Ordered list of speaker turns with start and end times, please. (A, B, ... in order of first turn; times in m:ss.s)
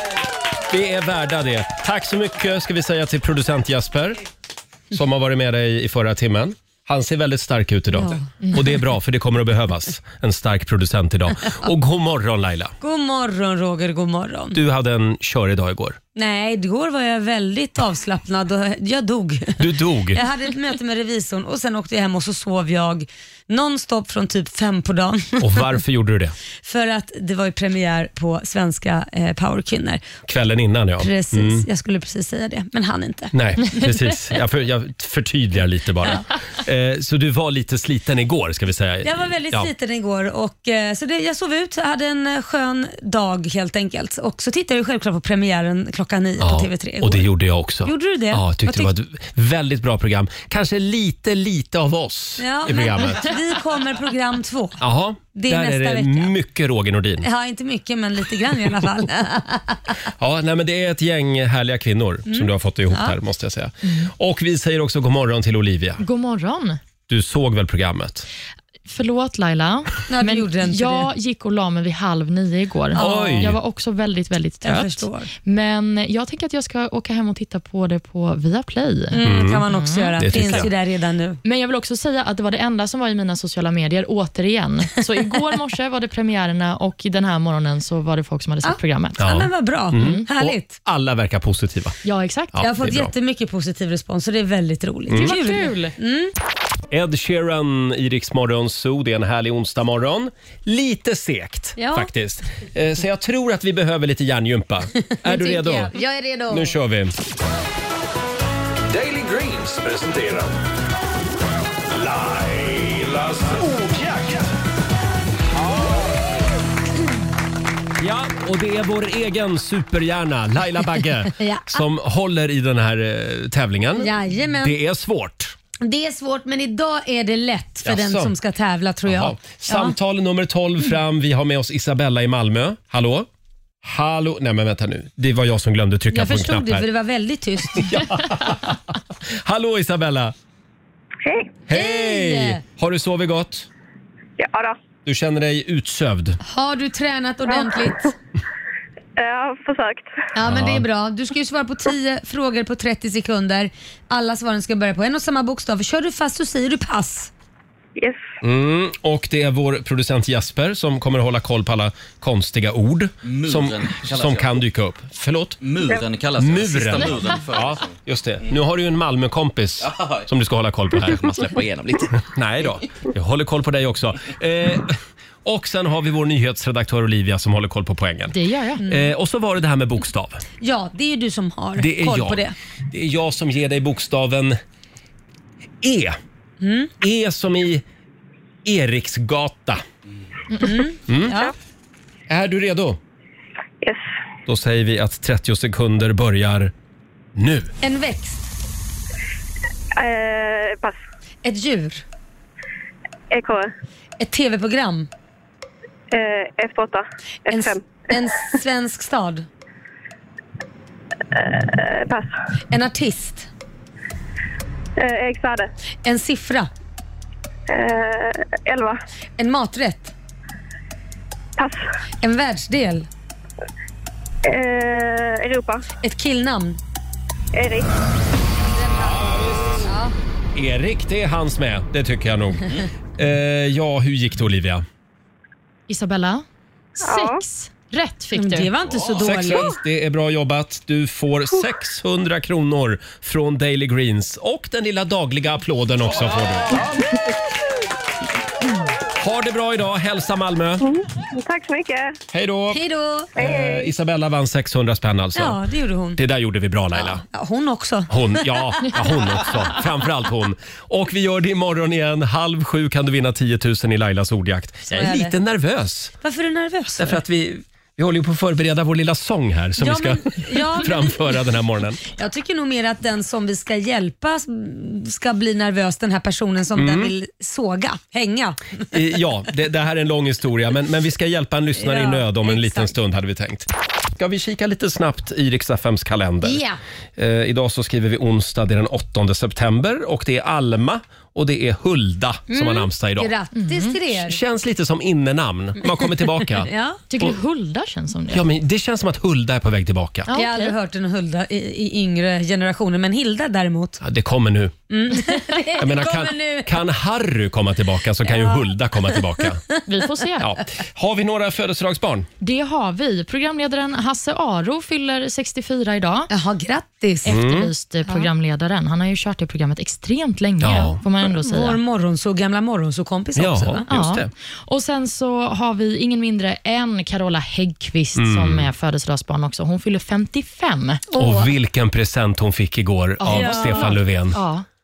0:00.7-0:04.2 A
0:04.9-0:12.7 A
0:07.9-0:08.3 B
0:12.8-0:14.6 B
0:14.5-0:16.0 A
0:16.2-0:25.7 B
0:19.6-0:20.2 A
0:25.4-0:26.4 A
0:26.6-0:30.0 B
0:30.3-0:31.7 A
0:31.0-0:33.3 B
0:33.3-0:39.7 A
0:39.0-0:47.3 B
0:46.4-0:53.3 A
0:47.8-0:48.9 B
0:52.4-0:54.8 B
0:54.8-0:57.3 A
0:55.4-0:56.3 B
0:57.2-0:59.8 B
1:00.2-1:06.0 A
1:02.3-1:03.2 B
1:06.0-1:06.8 C
1:07.1-1:08.2 A
1:08.9-1:20.6 C
1:10.1-1:11.1 B
1:12.9-1:13.5 B
1:13.0-1:13.6 A
1:14.6-1:15.3 B
1:19.1-1:21.4 B
1:19.2-1:19.6 A
1:20.2-1:20.7 A
1:21.4-1:29.3 C
1:28.6-1:30.8 B
1:29.2-1:32.0 A
1:29.9-1:30.2 C
1:32.0-1:32.6 C
1:32.5-1:33.1 A
1:32.6-1:36.3 B
1:35.1-1:35.4 A
1:35.1-1:35.9 C
1:36.9-1:45.9 A
1:41.8-1:42.1 B
1:45.1-1:46.7 B
1:46.5-1:47.2 A
1:48.9-1:50.5 D
1:51.9-1:54.5 D
1:58.0-2:05.5 A
2:01.4-2:01.7 B
2:04.0-2:04.8 B
2:05.8-2:09.9 B
2:07.8-2:08.3 A
2:09.1-2:13.3 A
2:13.8-2:16.9 A
2:16.1-2:18.1 B
2:17.8-2:20.3 A
2:21.2-2:21.6 E
2:21.7-2:23.7 A
2:21.7-2:22.6 B
2:24.4-2:24.8 E
2:25.0-2:26.4 A
2:26.4-2:28.1 B
2:27.6-2:27.9 E
2:29.2-2:30.1 E
2:30.3-2:37.3 B
2:30.4-2:30.8 A
2:38.0-2:38.2 E
2:38.4-2:45.6 A
2:43.2-2:44.6 F
2:45.6-2:48.0 F
2:46.4-2:51.6 A
2:49.8-2:50.2 F
2:51.0-2:52.2 F
2:52.1-3:00.4 A
2:58.3-2:58.8 C
2:58.8-2:59.1 B
3:00.6-3:02.6 B
3:01.8-3:04.6 A
3:05.8-3:06.2 A
3:06.6-3:06.9 B
3:07.0-3:07.8 A
3:08.6-3:09.8 A
3:10.6-3:11.5 B
3:11.1-3:11.4 A
3:12.3-3:13.0 A
3:14.5-3:16.7 A
3:17.3-3:17.7 A
3:17.8-3:18.5 B
3:20.0-3:21.0 E
3:21.4-3:22.0 B
3:23.3-3:23.7 E
3:24.2-3:25.1 B
3:26.1-3:28.0 E
3:27.5-3:29.5 B
3:31.3-3:32.3 E
3:32.7-3:33.5 B
3:35.0-3:35.7 E
3:36.0-3:36.7 B
3:37.7-3:39.0 E
3:39.4-3:40.1 B
3:41.6-3:41.8 E
3:42.2-3:43.1 B
3:44.4-3:45.8 E
3:46.0-3:46.8 B
3:47.5-3:47.9 E
3:48.8-3:50.1 B
3:49.2-3:49.8 D
3:50.5-3:54.8 A
3:55.9-3:56.4 C
3:57.0-3:58.7 C
3:57.0-3:57.4 E
3:58.3-3:59.8 B
3:59.2-4:06.9 A
4:09.2-4:10.8 A
4:10.8-4:12.2 E
4:12.3-4:12.8 A
4:12.7-4:13.3 B
4:13.4-4:13.9 E
4:13.4-4:15.6 A
4:15.4-4:16.2 B
4:16.2-4:17.2 A
4:17.0-4:19.0 B
4:18.1-4:26.1 A
4:24.9-4:25.3 B
4:26.2-4:27.2 B
4:27.0-4:32.0 A
4:29.8-4:31.4 B
4:32.0-4:38.8 B
4:36.8-4:37.1 A
4:38.9-4:46.6 A
4:41.8-4:42.9 B
4:46.4-4:46.8 B
4:47.2-4:53.3 A
4:52.5-4:54.4 B
4:53.6-4:53.9 C
4:54.1-4:57.3 A
4:55.9-4:57.0 B
4:57.1-4:58.4 C
4:58.3-5:00.3 A
5:00.3-5:00.7 C
5:00.4-5:04.0 B
5:04.0-5:04.8 A
5:04.9-5:06.8 B
5:05.8-5:09.6 A
5:08.3-5:09.2 B
5:09.9-5:10.5 C
5:10.4-5:12.3 A
5:12.4-5:16.3 C
5:16.3-5:17.4 B
5:17.2-5:21.8 C
5:17.3-5:17.7 A
5:20.6-5:21.0 A
5:21.2-5:23.8 B
5:23.4-5:24.3 A
5:23.9-5:31.0 C
5:28.1-5:28.7 A
5:31.1-5:31.5 B
5:31.2-5:34.4 A
5:33.2-5:34.6 C
5:33.3-5:34.0 B